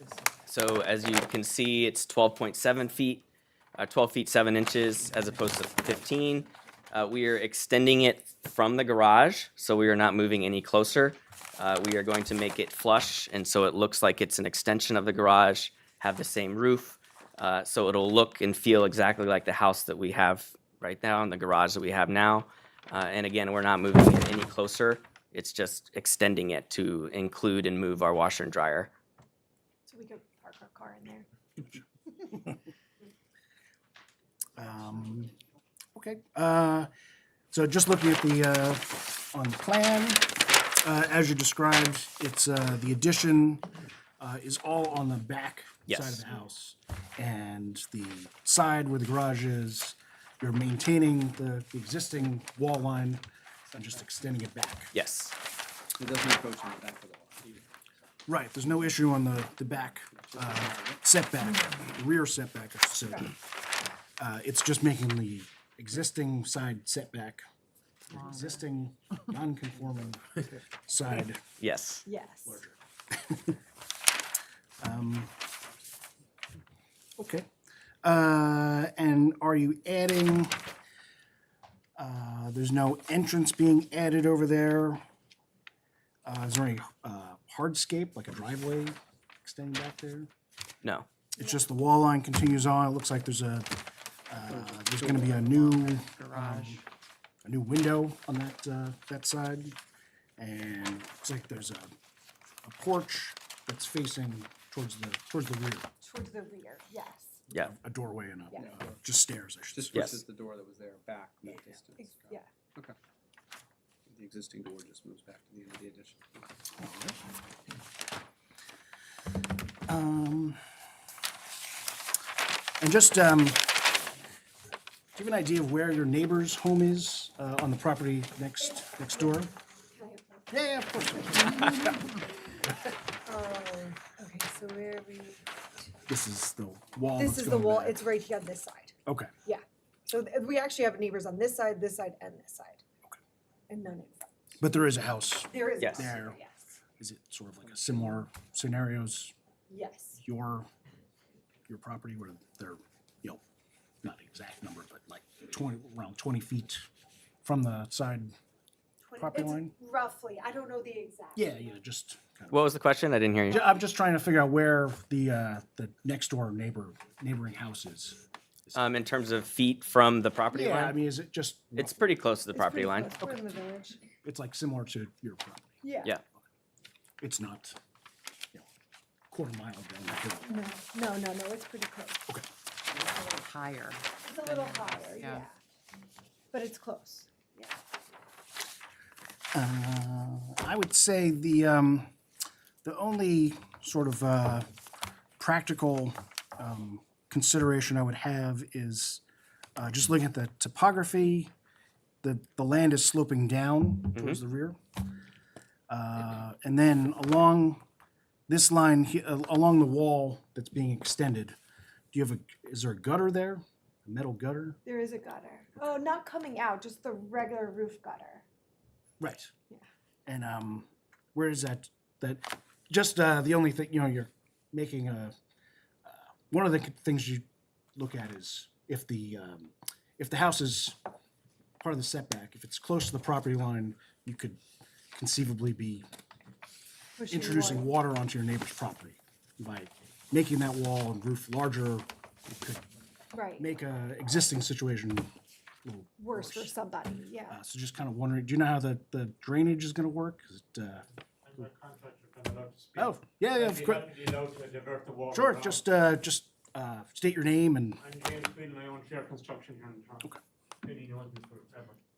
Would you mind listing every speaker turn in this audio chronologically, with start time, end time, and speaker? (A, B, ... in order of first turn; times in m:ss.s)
0:00.4-0:03.3 A
0:03.8-0:28.9 A
0:29.9-0:31.3 B
0:34.6-0:35.3 C
0:36.0-0:36.9 C
0:37.5-0:54.9 C
0:45.9-0:46.2 A
0:54.9-0:55.4 A
0:56.0-0:57.7 D
0:58.3-1:03.3 C
1:00.3-1:01.0 D
1:04.2-1:07.4 C
1:08.1-1:11.4 C
1:11.6-1:12.0 A
1:12.1-1:12.6 B
1:12.5-1:13.6 C
1:14.8-1:15.3 C
1:17.2-1:17.5 C
1:18.0-1:20.6 C
1:22.0-1:25.0 C
1:26.2-1:30.3 C
1:31.4-1:33.7 C
1:31.4-1:31.6 B
1:34.3-1:36.8 C
1:34.6-1:36.8 E
1:37.4-1:39.8 C
1:40.4-1:41.9 C
1:42.6-1:45.9 C
1:46.0-1:47.4 B
1:47.5-1:50.1 C
1:48.6-1:48.9 D
1:49.7-1:52.9 D
1:49.9-1:50.2 A
1:52.0-1:52.5 B
1:54.1-1:56.2 D
1:56.8-1:57.2 C
1:59.9-2:00.6 C
2:02.8-2:03.7 C
2:05.1-2:09.5 C
2:08.6-2:10.6 B
2:10.5-2:12.1 C
2:13.2-2:15.4 B
2:16.1-2:18.0 C
2:17.2-2:22.8 B
2:19.1-2:19.3 C
2:23.7-2:24.6 B
2:24.6-2:26.4 C
2:25.4-2:26.6 B
2:25.8-2:26.1 A
2:27.0-2:29.3 C
2:29.7-2:30.2 B
2:30.2-2:30.7 C
2:31.7-2:33.4 C
2:34.0-2:36.9 C
2:37.4-2:38.3 C
2:39.0-2:41.6 B
2:39.2-2:39.7 C
2:41.4-2:42.6 C
2:42.5-2:43.6 A
2:43.5-2:48.8 C
2:48.8-2:51.0 A
2:50.5-2:52.0 C
2:51.8-2:53.2 A
2:52.5-2:54.0 B
2:54.2-2:55.8 C
2:55.8-2:56.1 B
2:57.2-2:57.8 C
2:59.3-3:00.6 C
3:00.4-3:02.2 B
3:03.1-3:05.4 E
3:04.2-3:05.6 B
3:06.5-3:07.8 B
3:09.5-3:12.1 C
3:12.8-3:14.7 C
3:15.4-3:19.2 C
3:19.8-3:21.5 C
3:22.2-3:24.8 C
3:25.9-3:27.8 C
3:28.5-3:31.6 C
3:32.1-3:34.8 C
3:34.8-3:38.4 B
3:39.2-3:39.5 C
3:40.2-3:45.3 C
3:46.0-3:47.4 C
3:48.0-3:51.0 C
3:51.8-3:54.6 C
3:55.2-3:56.0 C
3:57.2-3:57.9 B
3:57.3-4:02.8 C
4:03.3-4:03.7 B
4:03.6-4:05.3 C
4:05.8-4:06.7 C
4:06.2-4:07.6 B
4:07.5-4:11.0 C
4:11.4-4:15.8 F
4:13.0-4:14.1 C
4:15.3-4:18.0 C
4:18.0-4:22.0 F